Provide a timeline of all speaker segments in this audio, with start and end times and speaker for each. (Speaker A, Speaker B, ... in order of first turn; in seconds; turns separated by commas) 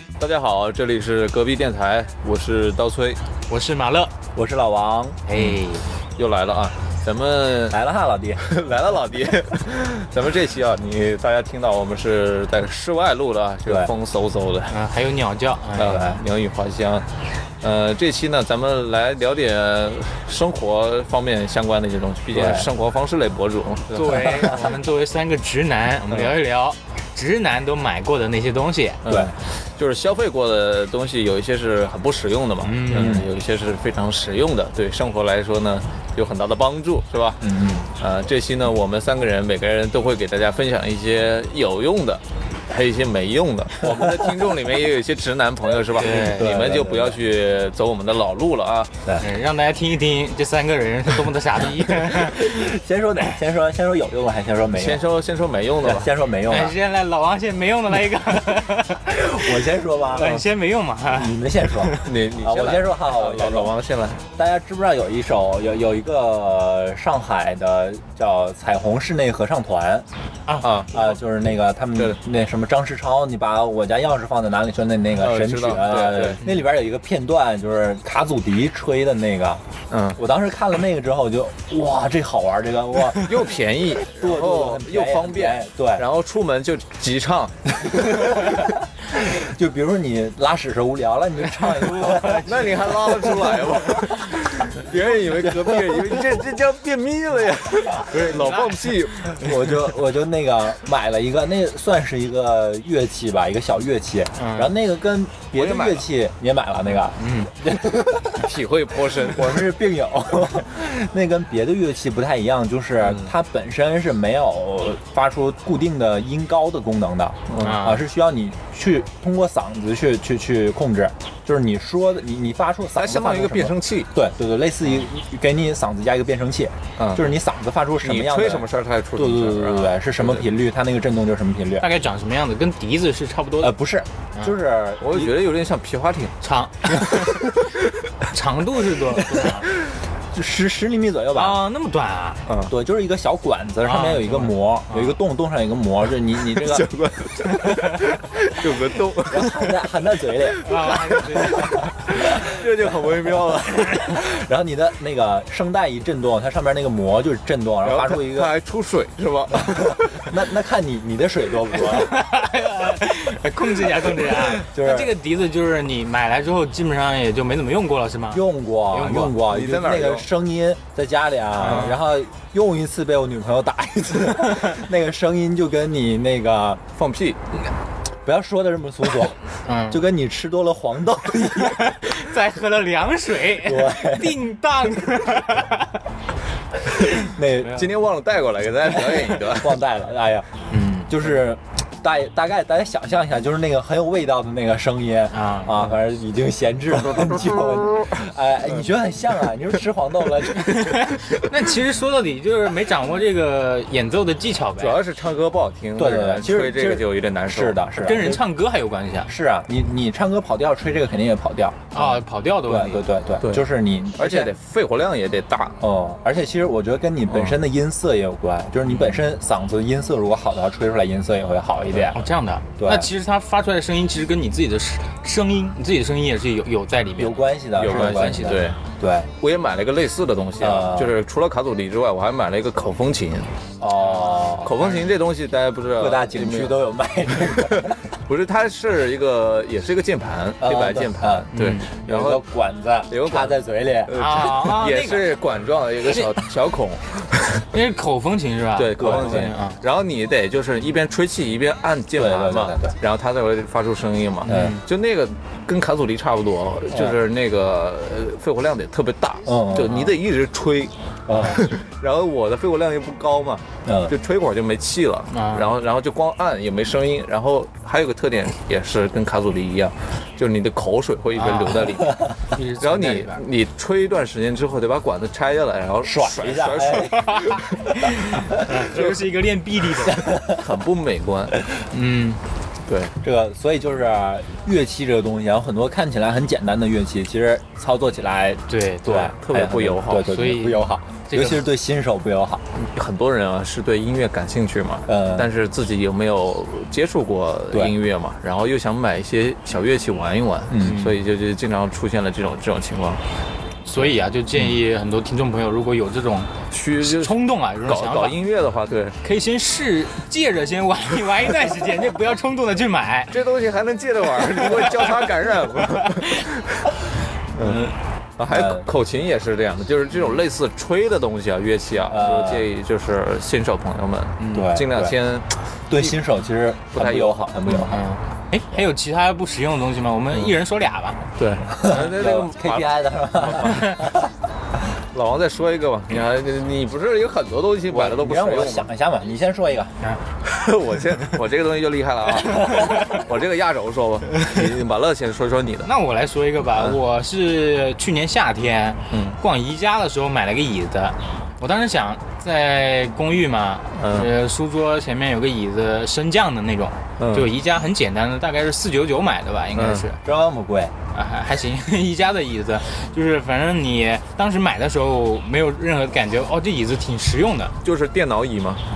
Speaker A: 0.2-3.2, Speaker B: 3.5-4.1, Speaker C: 4.3-5.2, Speaker B: 5.3-5.9, Speaker A: 6.2-7.8, Speaker C: 7.7-8.4, Speaker A: 8.4-14.7, Speaker C: 13.7-13.9, Speaker B: 14.7-16.2, Speaker A: 15.8-17.1, Speaker A: 17.6-24.5, Speaker C: 22.3-22.7, Speaker B: 23.9-29.0, Speaker A: 29.0-48.9, Speaker C: 29.1-29.3, Speaker B: 32.6-33.2, Speaker C: 32.9-33.3, Speaker C: 37.4-37.9, Speaker B: 46.0-46.5, Speaker C: 46.0-47.2, Speaker B: 49.2-52.5, Speaker C: 52.4-55.0, Speaker A: 54.8-56.1, Speaker C: 55.8-56.8, Speaker B: 56.5-59.5, Speaker C: 59.1-60.4, Speaker B: 60.1-62.1, Speaker C: 61.1-63.7, Speaker A: 62.0-64.2, Speaker C: 64.4-70.1, Speaker A: 70.6-70.9, Speaker C: 70.9-79.6, Speaker A: 75.2-76.4, Speaker A: 79.9-80.2, Speaker C: 80.2-83.5, Speaker A: 83.2-88.5, Speaker C: 84.0-86.0, Speaker C: 87.9-93.6, Speaker B: 91.7-92.8, Speaker A: 92.4-99.8, Speaker C: 94.9-96.2, Speaker B: 98.1-99.4, Speaker C: 99.4-108.4, Speaker B: 104.4-104.7, Speaker A: 105.5-106.1, Speaker B: 107.2-107.5, Speaker A: 108.3-109.8, Speaker C: 109.2-131.9, Speaker A: 113.0-113.3, Speaker A: 117.5-117.8, Speaker B: 117.6-118.0, Speaker A: 123.0-124.1, Speaker A: 127.0-127.3, Speaker A: 128.0-130.5, Speaker B: 131.8-133.7, Speaker C: 133.6-135.3, Speaker A: 135.0-136.3, Speaker B: 136.4-137.4, Speaker B: 138.3-139.7, Speaker C: 140.3-141.6, Speaker B: 141.3-142.4, Speaker A: 142.5-142.7, Speaker C: 142.7-146.9, Speaker B: 143.8-145.1, Speaker A: 146.4-149.8, Speaker C: 149.2-150.6, Speaker B: 150.6-151.9, Speaker A: 152.1-154.2, Speaker C: 154.0-158.5, Speaker A: 157.8-160.3, Speaker C: 159.7-162.2, Speaker B: 161.9-169.4, Speaker C: 164.6-165.1, Speaker C: 168.3-176.8, Speaker A: 169.4-170.3, Speaker B: 171.6-172.0, Speaker A: 176.9-177.4, Speaker C: 178.2-179.4, Speaker B: 179.7-180.0, Speaker C: 179.9-181.9, Speaker B: 181.6-185.9, Speaker C: 183.6-184.4, Speaker C: 187.2-187.9, Speaker A: 187.6-189.8, Speaker C: 188.9-190.5, Speaker B: 190.7-191.1, Speaker C: 191.1-201.2, Speaker B: 195.3-195.9, Speaker B: 200.6-205.0, Speaker A: 204.8-207.8, Speaker C: 206.0-208.4, Speaker B: 208.0-209.3, Speaker C: 209.3-214.5, Speaker B: 211.9-213.1, Speaker A: 213.4-215.8, Speaker C: 215.8-222.2, Speaker A: 217.3-217.6, Speaker B: 222.1-228.7, Speaker C: 222.8-223.1, Speaker C: 227.2-229.3, Speaker A: 227.8-228.8, Speaker A: 229.4-233.5, Speaker C: 230.6-231.2, Speaker C: 233.8-234.8, Speaker B: 234.0-234.9, Speaker A: 234.6-236.8, Speaker C: 236.0-238.0, Speaker A: 237.4-242.4, Speaker C: 240.6-244.1, Speaker B: 241.5-241.9, Speaker A: 243.1-247.7, Speaker B: 244.1-245.3, Speaker B: 246.1-246.4, Speaker B: 247.7-249.8, Speaker A: 248.8-272.2, Speaker C: 249.0-249.4, Speaker C: 252.1-253.0, Speaker B: 254.5-254.8, Speaker C: 254.5-254.8, Speaker C: 256.9-257.2, Speaker C: 259.4-260.2, Speaker C: 261.3-261.6, Speaker C: 263.9-264.1, Speaker B: 265.3-265.7, Speaker B: 271.4-273.4, Speaker A: 272.8-277.6, Speaker C: 276.0-277.1, Speaker B: 277.1-280.3, Speaker A: 278.7-279.2, Speaker A: 280.2-281.6, Speaker B: 281.9-282.4, Speaker A: 282.9-283.1, Speaker C: 283.2-292.6, Speaker B: 288.7-289.3, Speaker A: 289.2-290.3, Speaker B: 290.3-291.6, Speaker A: 292.8-303.2, Speaker C: 295.1-295.5, Speaker C: 300.7-301.2, Speaker B: 303.9-308.4, Speaker A: 306.7-309.2, Speaker B: 309.2-313.4, Speaker A: 313.3-316.9, Speaker B: 314.5-315.2, Speaker B: 315.8-316.5, Speaker A: 317.6-317.8, Speaker B: 317.6-317.9, Speaker A: 318.4-325.6, Speaker C: 318.5-318.9, Speaker C: 322.1-322.7, Speaker B: 324.4-324.7, Speaker C: 324.5-325.2, Speaker C: 325.9-328.0, Speaker A: 326.9-327.9, Speaker B: 327.9-331.3, Speaker A: 331.4-334.0, Speaker C: 331.7-334.3, Speaker B: 331.9-332.1, Speaker B: 333.6-334.0, Speaker A: 335.1-338.9, Speaker C: 337.9-340.0, Speaker A: 340.4-345.9, Speaker C: 342.6-342.9, Speaker B: 345.8-360.2, Speaker A: 349.1-349.4, Speaker A: 354.0-354.3, Speaker A: 357.2-357.5, Speaker A: 359.8-360.1, Speaker C: 360.2-360.9, Speaker B: 361.1-367.8, Speaker A: 367.8-368.8